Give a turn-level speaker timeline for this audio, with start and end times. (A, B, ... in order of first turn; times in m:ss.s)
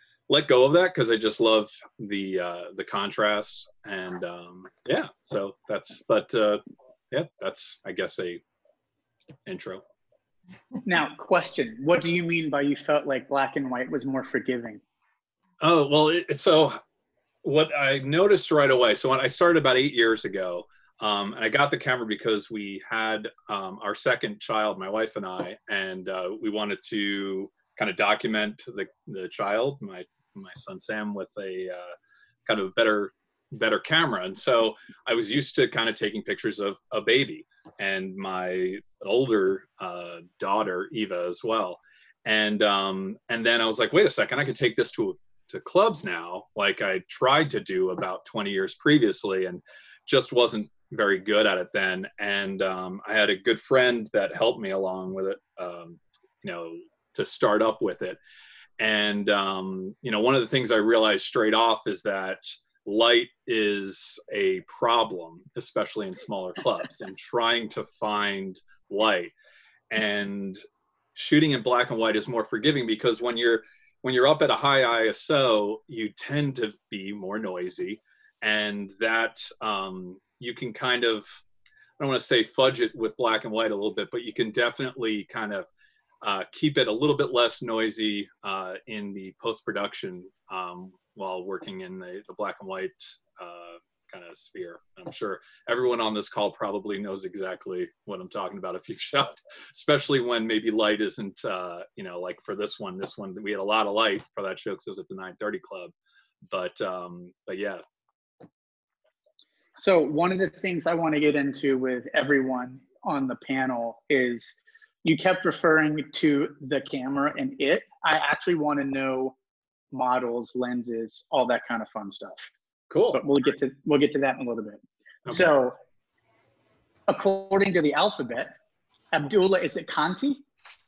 0:00.3-0:08.4 A
0:09.4-0:09.8 A
0:10.8-0:14.8 B
0:15.6-0:16.8 A
0:17.4-0:31.9 A
0:32.4-0:58.2 A
0:58.8-1:09.3 A
1:09.9-1:10.6 A
1:11.2-1:21.4 A
1:22.0-1:25.7 A
1:26.2-1:45.9 A
1:46.5-1:47.8 A
1:49.8-1:59.4 B
1:59.9-2:02.4 B
2:02.9-2:03.2 A
2:03.1-2:05.8 B
2:05.3-2:05.5 A
2:07.1-2:08.5 B
2:09.1-2:10.4 B